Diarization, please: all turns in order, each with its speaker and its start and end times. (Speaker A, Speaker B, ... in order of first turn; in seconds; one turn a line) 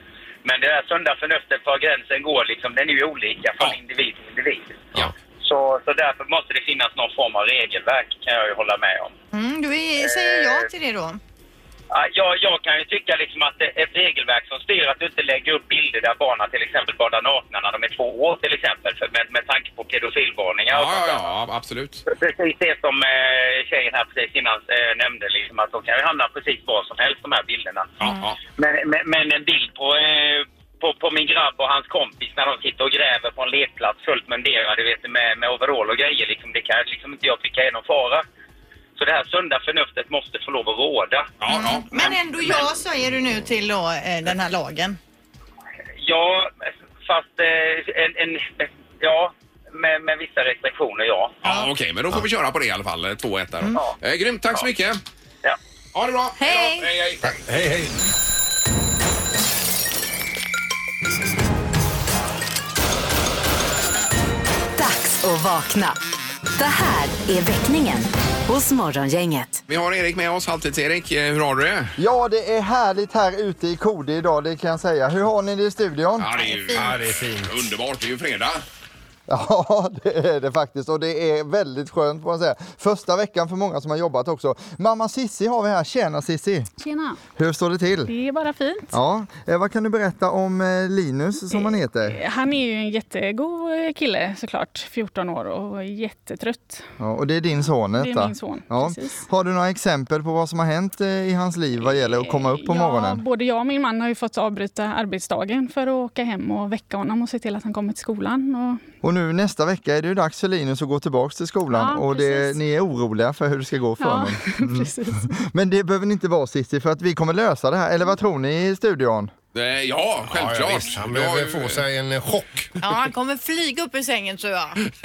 Speaker A: 0.4-9.1
Speaker B: 9.3-11.2
Speaker A: 10.0-10.7
Speaker A: 11.9-21.3
Speaker C: 20.7-22.0
Speaker A: 22.1-38.2
Speaker C: 28.0-28.4
Speaker A: 39.0-41.3
Speaker C: 41.4-42.2
Speaker B: 41.5-45.0
Speaker A: 46.0-51.4
Speaker C: 51.4-55.0
Speaker C: 55.9-57.3
Speaker B: 56.4-56.9
Speaker D: 57.2-57.9
Speaker E: 64.8-66.0
Speaker E: 66.5-69.6
Speaker C: 69.7-72.0
Speaker F: 72.0-76.3
Speaker C: 76.2-78.6
Speaker D: 76.7-77.7
Speaker F: 79.3-86.7
Speaker G: 86.8-87.2
Speaker F: 87.3-88.1
Speaker G: 88.1-88.9
Speaker F: 88.9-92.2
Speaker G: 91.5-96.8
Speaker F: 97.0-103.2
Speaker G: 98.0-99.2
Speaker G: 101.9-108.8
Speaker F: 109.0-119.3
Speaker G: 111.7-112.6
Speaker G: 114.0-115.3
Speaker C: 119.5-121.8
Speaker D: 120.3-122.7
Speaker B: 122.8-124.8